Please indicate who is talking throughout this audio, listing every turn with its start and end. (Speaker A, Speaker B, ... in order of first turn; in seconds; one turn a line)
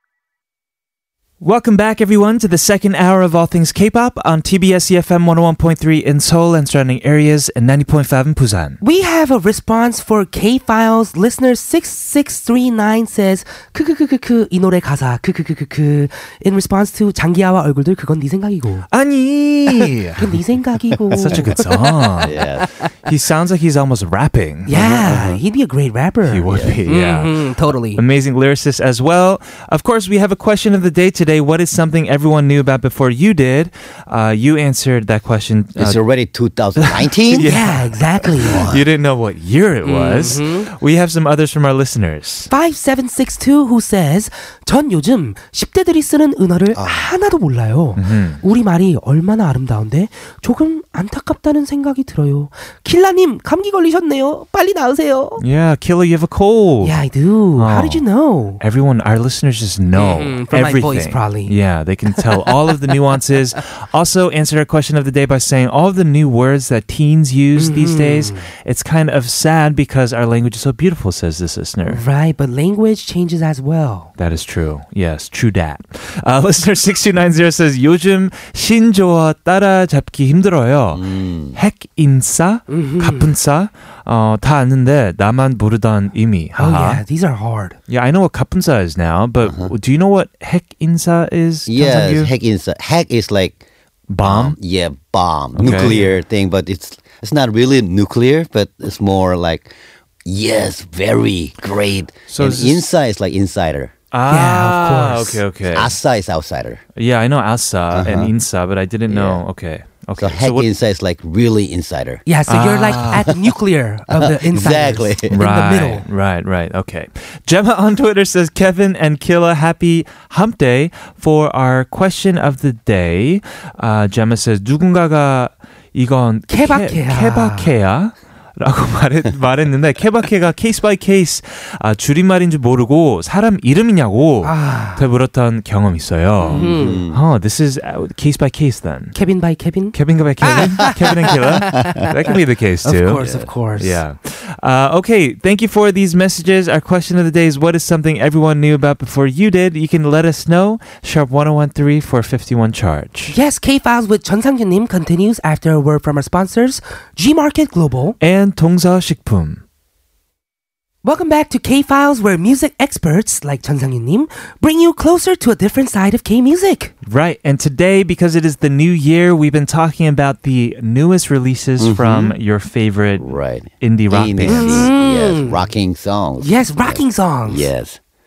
Speaker A: 1.4-8.8
Speaker B: 8.8-18.9
Speaker A: 18.9-20.4
Speaker B: 20.2-21.9
Speaker C: 21.1-21.6
Speaker A: 21.2-22.4
Speaker C: 22.2-22.7
Speaker A: 23.1-24.7
Speaker B: 24.7-28.0
Speaker C: 24.7-25.4
Speaker A: 26.3-36.0
Speaker C: 26.5-26.8
Speaker C: 35.8-37.5
Speaker A: 36.8-42.5
Speaker B: 37.4-38.6
Speaker C: 38.4-38.9
Speaker B: 39.8-40.7
Speaker B: 42.5-55.4
Speaker C: 46.7-47.1
Speaker A: 48.0-48.4
Speaker A: 55.4-57.0
Speaker B: 56.8-58.6
Speaker A: 57.6-58.0
Speaker A: 58.6-72.0
Speaker B: 59.9-61.5
Speaker B: 62.2-62.5
Speaker B: 67.5-68.4
Speaker B: 71.9-74.1
Speaker A: 74.2-87.0
Speaker C: 80.9-81.6
Speaker B: 82.7-83.3
Speaker B: 86.6-87.8
Speaker A: 87.9-92.3
Speaker C: 89.4-89.7
Speaker C: 91.7-93.6
Speaker A: 94.1-94.6
Speaker C: 94.2-99.7
Speaker A: 95.6-96.0
Speaker C: 100.2-103.9
Speaker A: 102.3-102.9
Speaker A: 104.1-106.0
Speaker B: 104.3-105.4
Speaker C: 105.7-106.8
Speaker A: 107.0-110.7
Speaker C: 107.9-108.3
Speaker C: 109.1-109.4
Speaker C: 110.2-112.2
Speaker B: 112.2-116.0
Speaker A: 112.5-113.3
Speaker C: 114.1-115.4
Speaker A: 115.3-139.1
Speaker B: 126.5-127.7
Speaker B: 134.4-135.0
Speaker C: 136.4-137.2
Speaker B: 136.4-137.0
Speaker B: 139.1-142.3
Speaker A: 139.9-143.2
Speaker C: 141.7-142.1
Speaker B: 142.8-144.0
Speaker C: 143.2-143.5
Speaker A: 143.8-153.3
Speaker B: 153.3-158.2
Speaker A: 158.2-159.6
Speaker B: 161.0-166.9
Speaker A: 167.1-174.9
Speaker C: 171.8-172.4
Speaker C: 173.2-178.0
Speaker B: 174.5-175.6
Speaker B: 176.4-177.7